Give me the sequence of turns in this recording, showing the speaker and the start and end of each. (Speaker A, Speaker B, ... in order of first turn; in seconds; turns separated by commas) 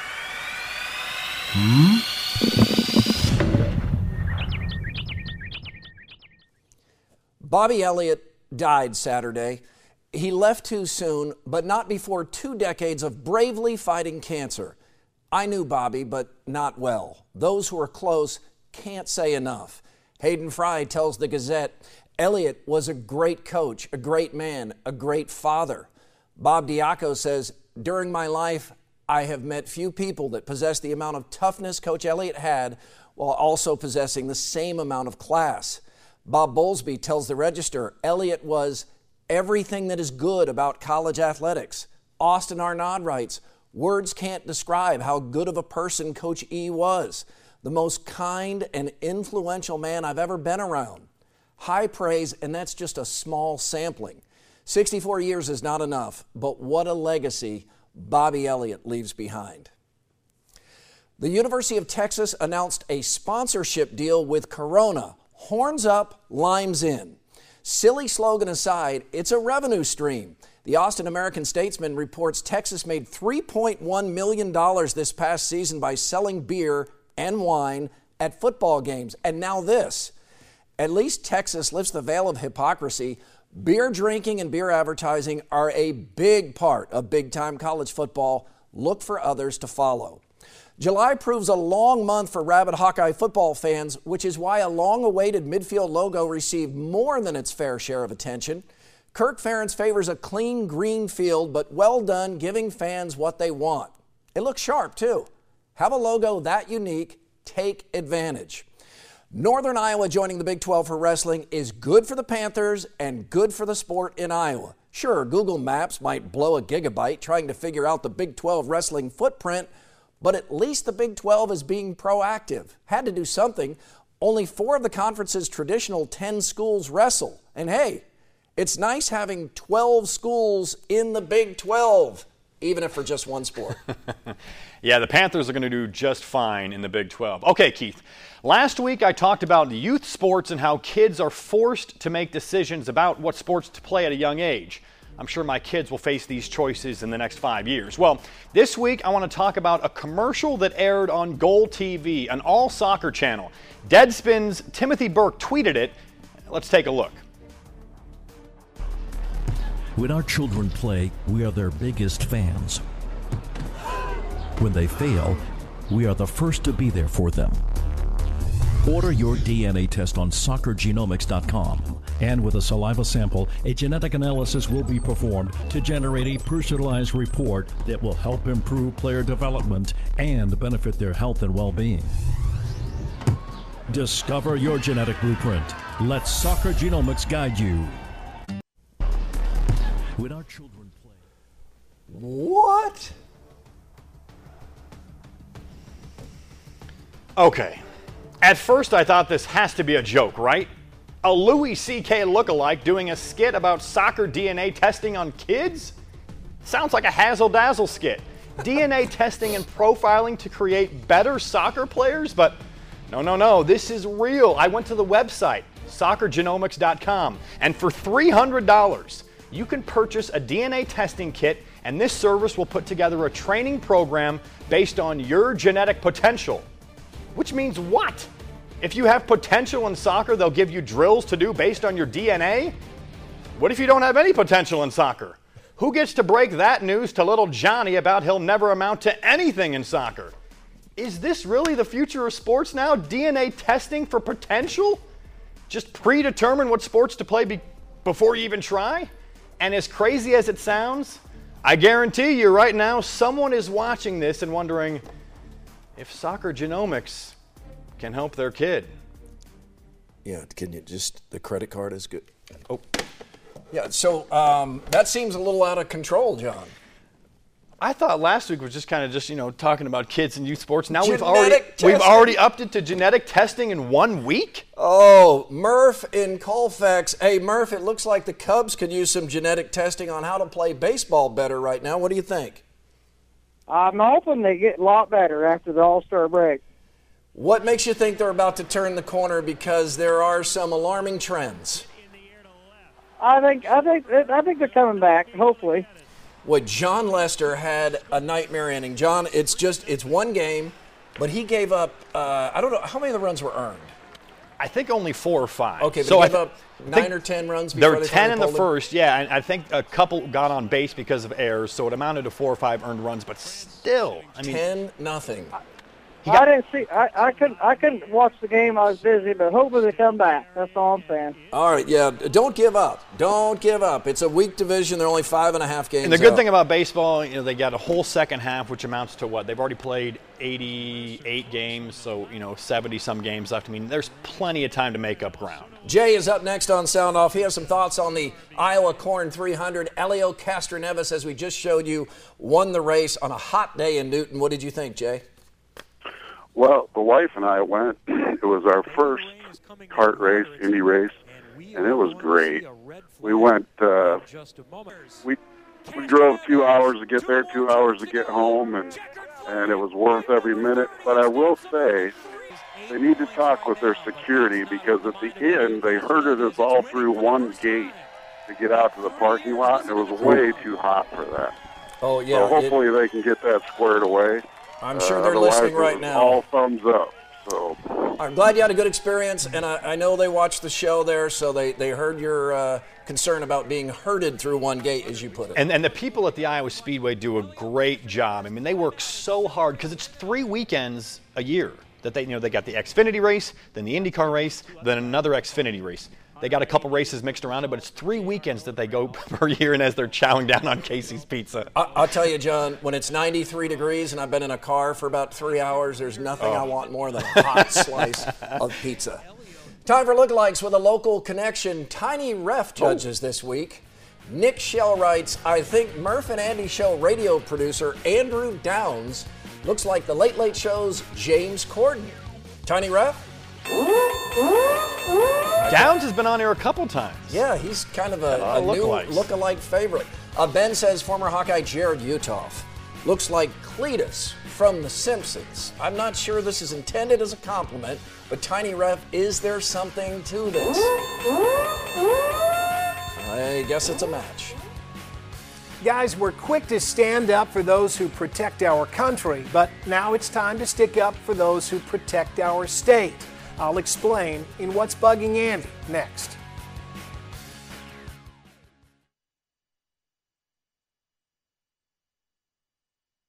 Speaker A: 7.4-9.6, Speaker A: 10.1-14.8, Speaker A: 15.3-51.1, Speaker A: 51.6-59.7, Speaker A: 61.2-80.1, Speaker A: 80.8-90.2, Speaker A: 90.8-108.7, Speaker A: 109.3-119.7, Speaker A: 120.2-128.0, Speaker A: 128.6-133.8, Speaker B: 134.8-155.9, Speaker B: 156.5-157.2, Speaker C: 160.0-162.8, Speaker C: 164.6-167.6, Speaker C: 168.8-182.1, Speaker C: 183.9-188.0, Speaker C: 190.2-191.2, Speaker A: 192.1-193.1, Speaker B: 197.4-197.8, Speaker B: 198.4-200.7, Speaker B: 201.2-205.9, Speaker B: 206.6-226.7, Speaker B: 227.3-228.3, Speaker B: 228.8-232.8, Speaker B: 233.6-240.3, Speaker B: 241.0-245.0, Speaker B: 245.7-255.0, Speaker B: 256.0-257.4, Speaker B: 258.0-258.9, Speaker A: 260.2-262.3, Speaker A: 263.7-266.7, Speaker B: 267.8-274.6, Speaker A: 270.9-272.4, Speaker A: 274.8-282.6, Speaker D: 283.7-286.6, Speaker A: 287.4-291.9, Speaker D: 293.2-295.9, Speaker A: 296.4-303.9, Speaker B: 304.6-306.4, Speaker A: 305.8-308.7, Speaker B: 307.7-314.6, Speaker A: 314.4-315.6, Speaker D: 316.2-321.4, Speaker A: 321.5-326.4, Speaker B: 326.0-335.8, Speaker A: 335.8-345.2, Speaker E: 346.6-351.2, Speaker E: 351.8-352.6, Speaker E: 353.2-354.2, Speaker E: 355.9-358.9, Speaker E: 359.5-362.1, Speaker E: 362.9-367.9, Speaker E: 368.5-371.5, Speaker A: 372.0-372.8, Speaker E: 372.3-378.2, Speaker A: 374.8-376.4, Speaker A: 378.2-385.7, Speaker B: 385.6-401.7, Speaker A: 401.7-409.2, Speaker B: 406.4-406.7, Speaker B: 407.2-408.5, Speaker A: 409.9-423.2, Speaker B: 412.8-413.1, Speaker A: 425.6-425.9, Speaker B: 425.7-427.4, Speaker A: 427.3-440.9, Speaker B: 428.3-429.3, Speaker A: 443.2-444.6, Speaker F: 445.8-456.4